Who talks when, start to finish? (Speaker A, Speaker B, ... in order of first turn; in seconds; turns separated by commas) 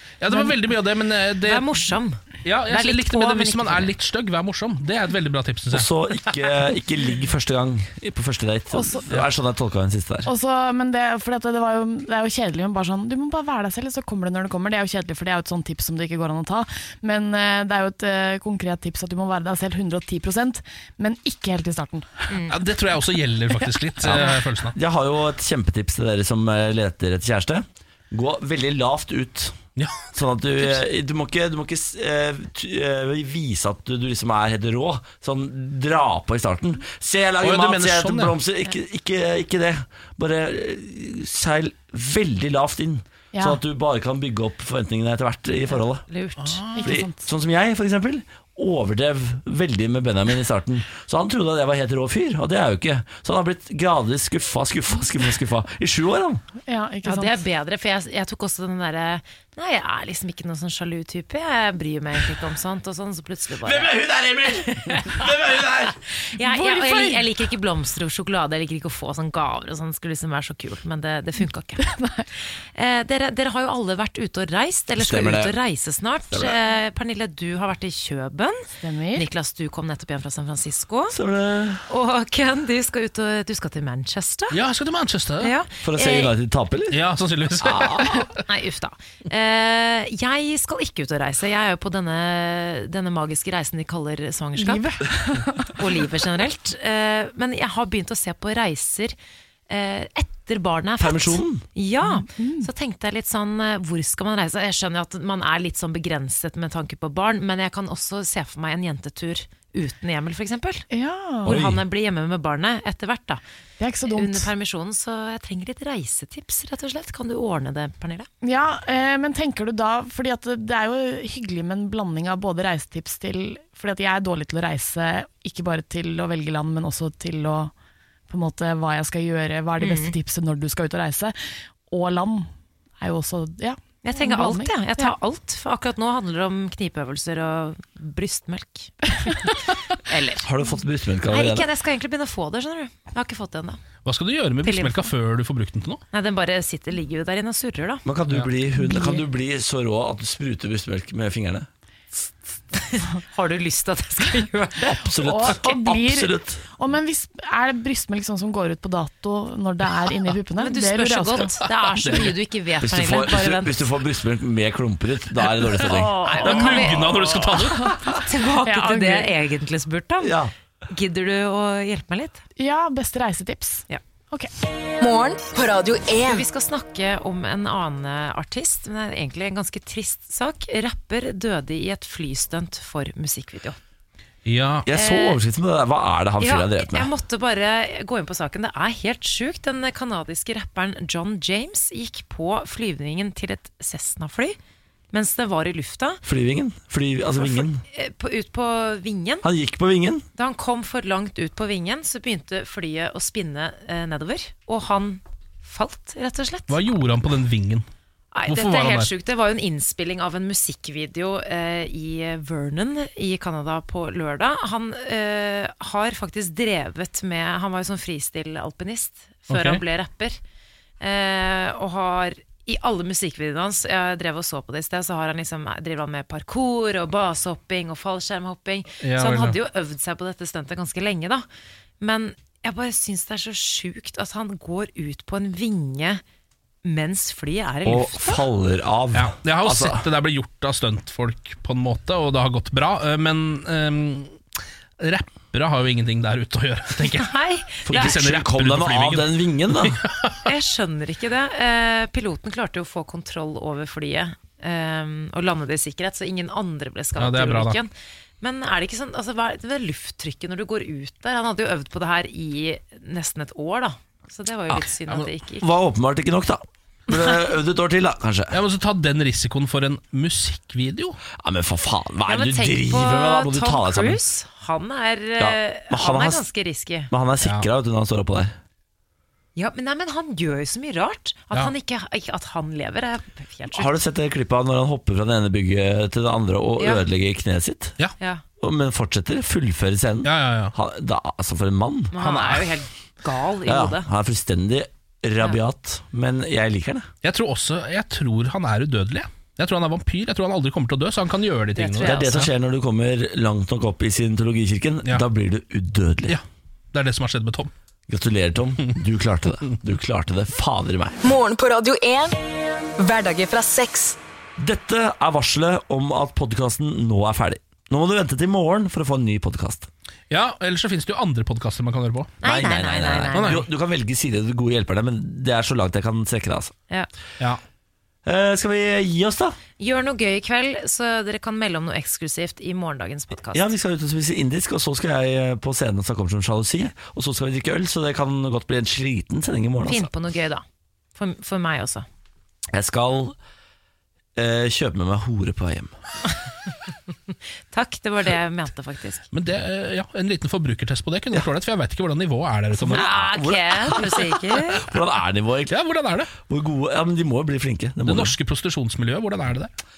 Speaker A: 0.2-1.8, Speaker B: 1.4-3.9, Speaker A: 2.4-5.9, Speaker C: 5.7-10.3, Speaker D: 8.7-9.1, Speaker D: 10.2-22.3, Speaker B: 22.3-22.5, Speaker A: 22.5-24.8, Speaker C: 24.0-29.6, Speaker C: 30.1-46.0, Speaker A: 37.4-38.4, Speaker D: 43.3-43.6, Speaker B: 46.1-46.7, Speaker A: 46.4-46.9, Speaker D: 46.8-47.2, Speaker C: 46.8-56.4, Speaker D: 56.7-57.4, Speaker B: 57.0-65.3, Speaker C: 63.6-66.0, Speaker B: 66.3-71.9, Speaker D: 66.4-67.2, Speaker D: 71.8-72.3, Speaker B: 72.7-78.6, Speaker C: 75.0-75.5, Speaker C: 76.3-76.5, Speaker D: 78.8-79.2, Speaker B: 79.2-81.2, Speaker C: 81.1-81.8, Speaker B: 81.9-84.6, Speaker A: 84.5-85.5, Speaker B: 85.4-86.3, Speaker C: 85.8-87.0, Speaker A: 86.9-88.3, Speaker C: 87.6-88.2, Speaker B: 88.5-95.0, Speaker D: 94.6-95.8, Speaker B: 95.8-99.2, Speaker B: 99.7-110.8, Speaker C: 101.0-101.6, Speaker D: 102.0-102.7, Speaker D: 110.9-111.6, Speaker B: 111.4-113.4, Speaker C: 111.5-111.8, Speaker D: 113.8-114.5, Speaker B: 114.1-118.3, Speaker D: 118.4-127.7, Speaker D: 128.3-131.3, Speaker B: 129.8-130.1, Speaker D: 131.9-135.1, Speaker B: 134.0-140.4, Speaker C: 140.4-141.7, Speaker B: 141.3-143.8, Speaker A: 144.0-146.0, Speaker B: 144.6-145.1, Speaker B: 146.1-148.0, Speaker C: 148.0-151.7, Speaker D: 148.8-149.2, Speaker B: 152.7-155.0, Speaker C: 154.8-156.6, Speaker D: 155.2-161.6, Speaker B: 160.6-163.9, Speaker C: 162.0-166.2, Speaker B: 165.8-167.4, Speaker A: 166.3-168.0, Speaker B: 168.1-170.3, Speaker D: 168.6-169.3, Speaker C: 170.2-170.5, Speaker B: 170.9-172.4, Speaker D: 172.6-174.5, Speaker E: 175.0-176.4, Speaker B: 176.3-183.8, Speaker A: 184.4-184.8, Speaker C: 184.8-187.1, Speaker B: 184.9-185.4, Speaker B: 186.4-194.6, Speaker B: 195.1-196.2, Speaker C: 196.2-197.8, Speaker B: 197.4-199.4, Speaker C: 199.4-200.2, Speaker B: 200.3-206.8, Speaker A: 206.7-207.8, Speaker B: 208.3-220.4, Speaker A: 208.5-209.1, Speaker A: 219.5-219.8, Speaker B: 221.0-231.4, Speaker A: 229.0-229.6, Speaker B: 232.0-236.2, Speaker B: 236.8-238.4, Speaker C: 237.8-240.1, Speaker A: 239.1-244.4, Speaker A: 245.0-247.3, Speaker B: 247.1-248.2, Speaker C: 247.8-250.0, Speaker A: 247.9-250.4, Speaker B: 250.4-265.7, Speaker A: 257.2-257.8, Speaker A: 264.7-265.3, Speaker C: 265.6-268.6, Speaker A: 268.5-271.2, Speaker C: 271.4-274.2, Speaker B: 272.3-277.1, Speaker C: 275.4-276.4, Speaker C: 277.1-278.5, Speaker B: 279.6-283.9, Speaker C: 283.7-288.0, Speaker B: 286.8-287.0, Speaker C: 288.6-292.2, Speaker A: 290.2-290.7, Speaker B: 292.1-294.1, Speaker C: 293.6-297.1, Speaker A: 297.2-302.2, Speaker B: 301.7-302.5, Speaker C: 302.0-306.4, Speaker A: 306.3-307.7, Speaker C: 308.1-311.2, Speaker E: 311.2-312.4, Speaker E: 313.0-314.2, Speaker C: 314.6-319.9, Speaker A: 320.3-322.3, Speaker B: 322.4-323.6, Speaker C: 322.4-326.7, Speaker A: 323.3-323.6, Speaker C: 328.2-329.6, Speaker B: 329.8-333.7, Speaker C: 333.5-340.1, Speaker B: 339.8-340.6, Speaker B: 341.1-342.1, Speaker C: 342.7-343.4, Speaker C: 344.4-345.9, Speaker B: 347.7-349.2, Speaker A: 349.3-353.1, Speaker C: 352.7-355.8, Speaker B: 352.9-354.8, Speaker A: 355.7-356.3, Speaker C: 356.4-358.4, Speaker A: 358.0-359.7